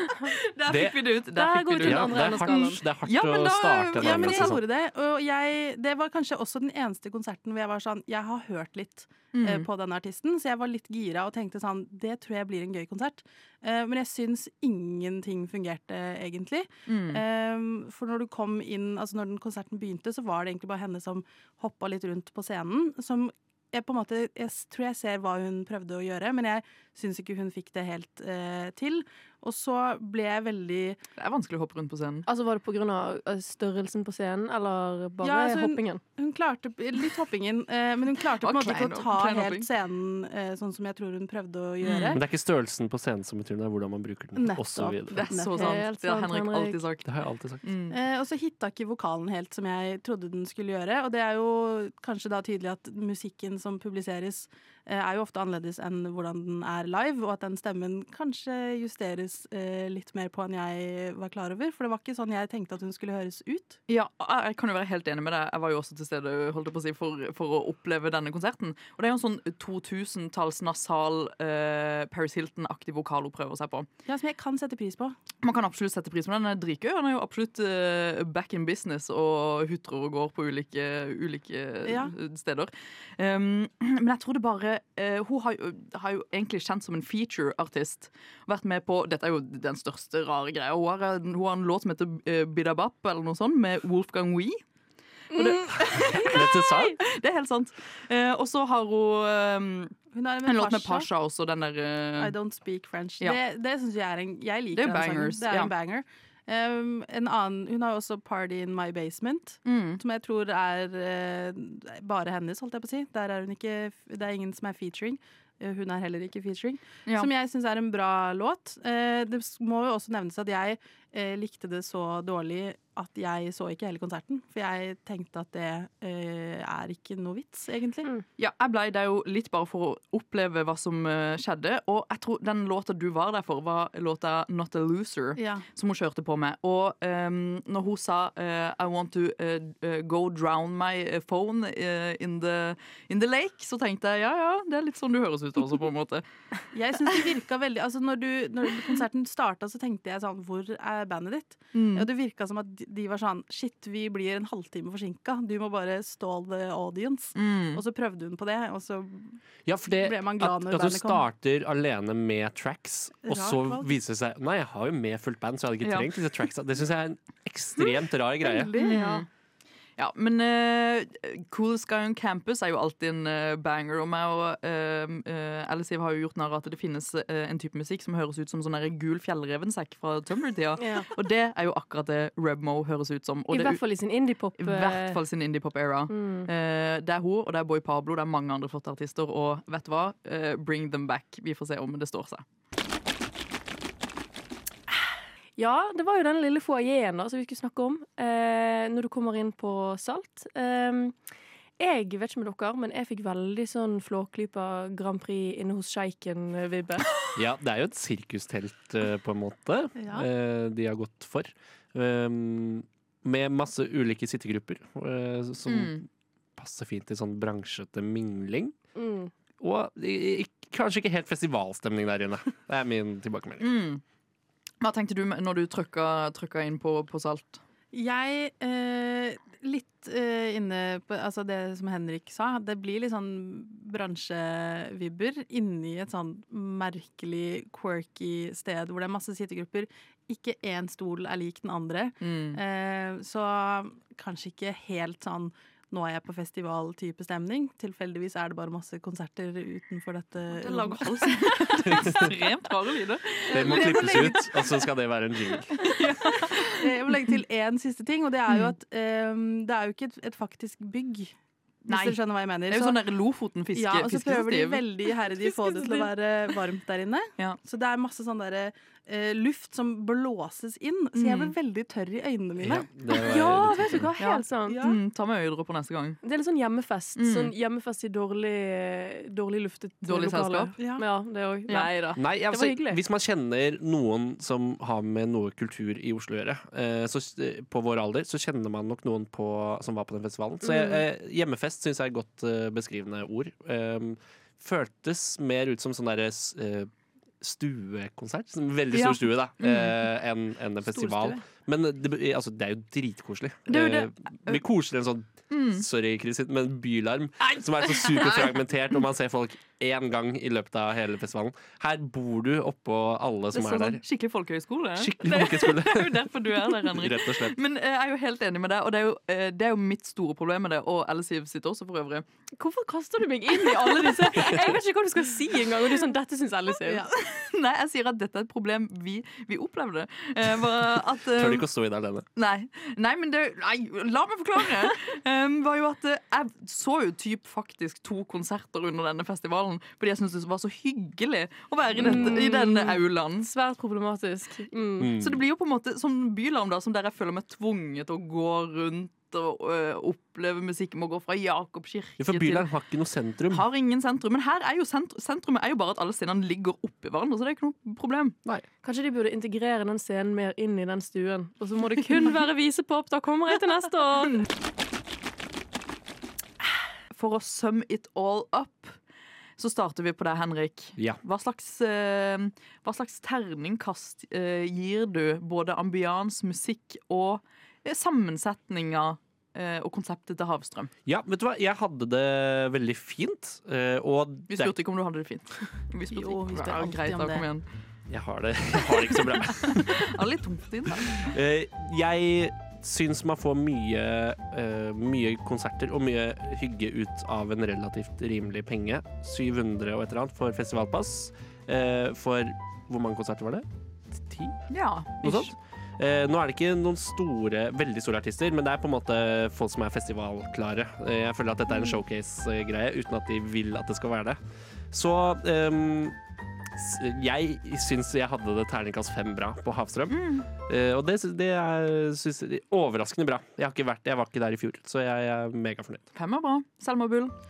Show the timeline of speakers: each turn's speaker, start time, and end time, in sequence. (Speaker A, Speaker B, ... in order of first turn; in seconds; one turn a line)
Speaker A: 0.2-4.6
Speaker B: 0.7-1.0
Speaker C: 1.3-2.9
Speaker B: 1.8-4.6
Speaker D: 4.0-31.0
Speaker A: 9.3-9.7
Speaker A: 16.9-17.2
Speaker A: 31.2-32.2
Speaker C: 32.3-36.0
Speaker D: 35.2-42.2
Speaker A: 38.4-39.7
Speaker A: 41.8-42.2
Speaker B: 42.1-45.2
Speaker D: 44.4-45.8
Speaker A: 45.1-47.1
Speaker C: 45.5-46.8
Speaker B: 47.0-47.6
Speaker A: 47.6-48.0
Speaker D: 47.9-63.8
Speaker A: 63.9-73.9
Speaker D: 74.1-75.2
Speaker A: 75.4-94.6
Speaker D: 81.8-82.1
Speaker C: 95.3-96.4
Speaker A: 95.3-102.3
Speaker B: 95.8-97.0
Speaker D: 100.1-101.1
Speaker D: 102.2-128.1
Speaker A: 104.7-105.7
Speaker A: 109.7-110.0
Speaker A: 128.4-146.2
Speaker D: 135.4-135.7
Speaker D: 146.7-159.4
Speaker A: 151.7-152.1
Speaker A: 157.3-157.8
Speaker B: 159.7-168.8
Speaker D: 159.9-161.3
Speaker D: 163.3-163.9
Speaker A: 165.8-166.1
Speaker D: 168.4-169.2
Speaker C: 168.7-169.2
Speaker A: 168.8-169.3
Speaker A: 170.0-183.8
Speaker C: 180.8-181.1
Speaker C: 183.5-185.2
Speaker A: 184.6-192.4
Speaker C: 186.1-186.5
Speaker C: 195.6-201.2
Speaker C: 201.8-207.1
Speaker B: 207.3-216.1
Speaker D: 210.0-210.3
Speaker A: 215.7-216.0
Speaker B: 216.6-218.7
Speaker C: 219.0-219.3
Speaker B: 219.6-223.7
Speaker A: 223.6-224.0
Speaker A: 224.8-227.6
Speaker D: 227.9-252.2
Speaker A: 242.2-242.6
Speaker A: 250.5-254.5
Speaker B: 251.9-252.3
Speaker D: 253.5-254.6
Speaker B: 253.5-255.8
Speaker A: 255.7-256.9
Speaker D: 256.3-261.3
Speaker D: 261.9-263.0
Speaker A: 261.9-264.8
Speaker D: 263.7-272.9
Speaker C: 265.3-266.1
Speaker A: 271.1-271.6
Speaker B: 272.6-274.1
Speaker C: 273.1-274.9
Speaker A: 274.2-276.2
Speaker D: 274.6-275.0
Speaker C: 276.2-283.0
Speaker A: 277.2-277.5
Speaker A: 280.0-280.8
Speaker D: 280.8-281.0
Speaker A: 281.7-281.9
Speaker B: 282.2-296.9
Speaker C: 290.6-291.0
Speaker B: 297.4-314.0
Speaker A: 298.9-300.0
Speaker A: 300.9-301.4
Speaker A: 303.7-304.6
Speaker A: 305.5-305.9
Speaker A: 307.8-308.6
Speaker A: 313.5-322.2
Speaker B: 315.0-316.3
Speaker B: 316.9-317.6
Speaker C: 322.6-327.1
Speaker A: 323.6-324.7
Speaker A: 326.9-331.7
Speaker B: 331.3-332.3
Speaker A: 332.4-343.5
Speaker C: 341.9-345.2
Speaker B: 345.0-345.4
Speaker A: 345.2-352.7
Speaker B: 352.2-353.7
Speaker A: 353.5-358.4
Speaker C: 358.8-364.5
Speaker A: 367.1-369.0
Speaker A: 369.6-380.9
Speaker B: 381.1-384.7
Speaker A: 384.5-387.6
Speaker D: 386.1-387.5
Speaker B: 388.1-390.1
Speaker A: 389.1-391.4
Speaker B: 391.1-404.6
Speaker A: 404.7-405.5
Speaker B: 405.2-414.4
Speaker B: 414.9-416.2
Speaker B: 416.8-426.1
Speaker A: 420.1-420.5
Speaker A: 426.1-427.3